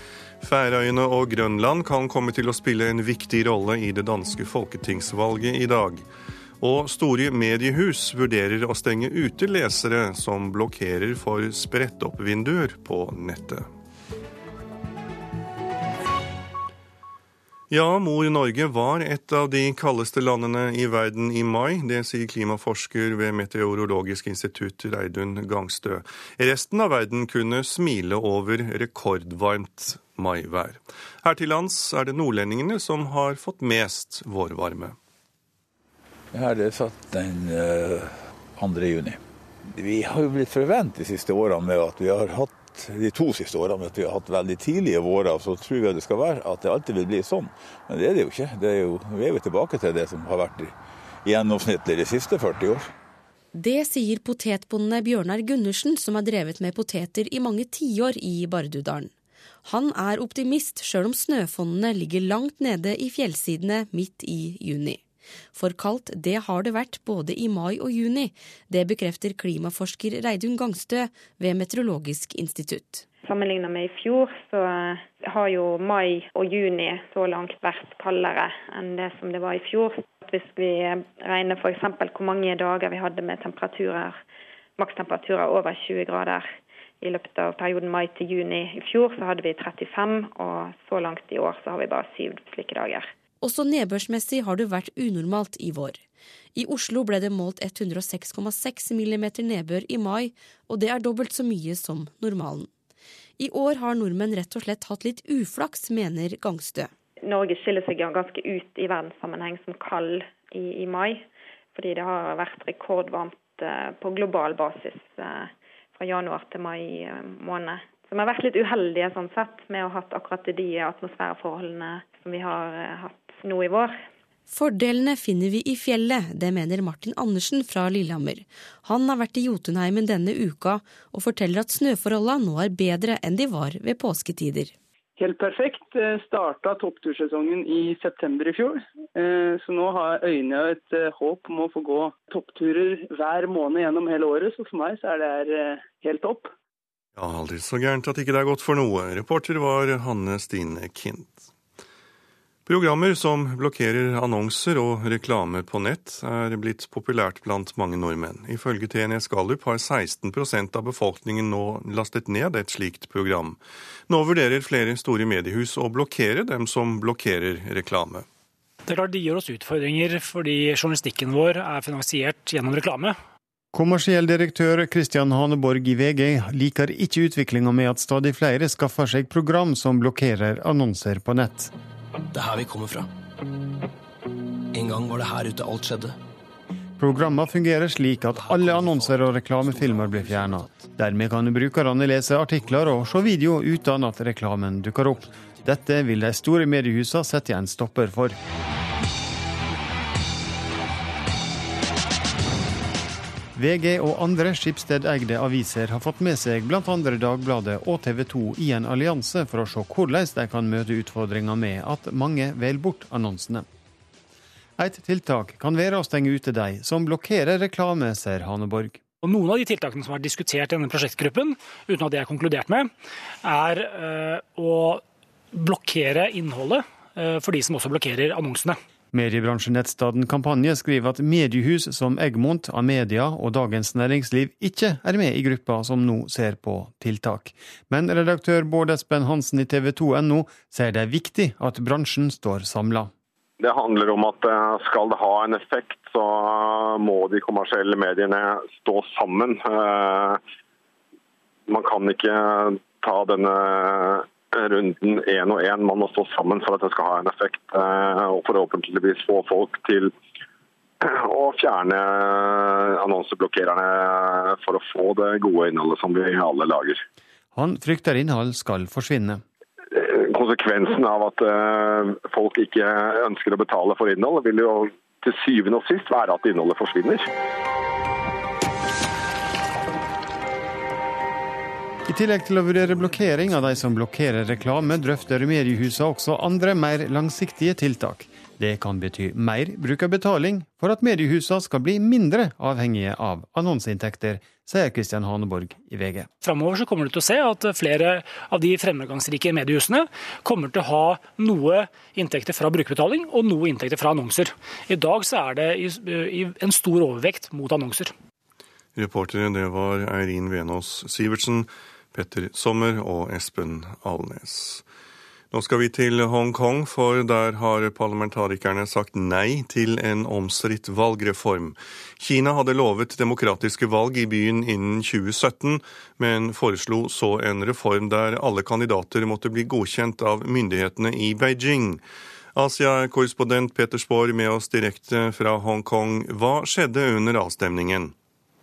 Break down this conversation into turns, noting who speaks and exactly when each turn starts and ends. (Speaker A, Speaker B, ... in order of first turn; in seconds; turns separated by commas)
Speaker A: 0.4-6.0, Speaker A: 6.6-13.7, Speaker A: 17.7-35.0, Speaker B: 36.3-50.7, Speaker B: 51.2-52.9, Speaker C: 53.5-59.1, Speaker C: 59.6-65.0, Speaker C: 65.5-73.0, Speaker D: 73.2-84.2, Speaker D: 84.8-93.1, Speaker C: 93.4-96.0, Speaker C: 96.6-102.7, Speaker C: 103.4-106.9, Speaker D: 107.2-124.0, Speaker C: 124.5-134.7, Speaker E: 135.2-146.5, Speaker A: 147.2-151.5, Speaker A: 152.7-168.3, Speaker F: 168.9-173.2, Speaker G: 173.7-181.7, Speaker H: 182.3-183.1, Speaker H: 184.7-186.2, Speaker G: 187.0-198.4, Speaker H: 188.5-189.2, Speaker H: 190.2-190.7, Speaker G: 203.6-213.7, Speaker G: 214.8-219.0, Speaker F: 219.2-222.9, Speaker F: 223.4-228.8, Speaker G: 229.1-243.1, Speaker I: 243.6-250.4, Speaker I: 251.7-260.1, Speaker I: 261.0-267.0, Speaker G: 267.5-269.4, Speaker I: 269.9-277.3, Speaker G: 282.1-296.3, Speaker F: 296.4-308.1, Speaker A: 309.0-314.8, Speaker A: 315.5-332.0, Speaker A: 332.6-338.1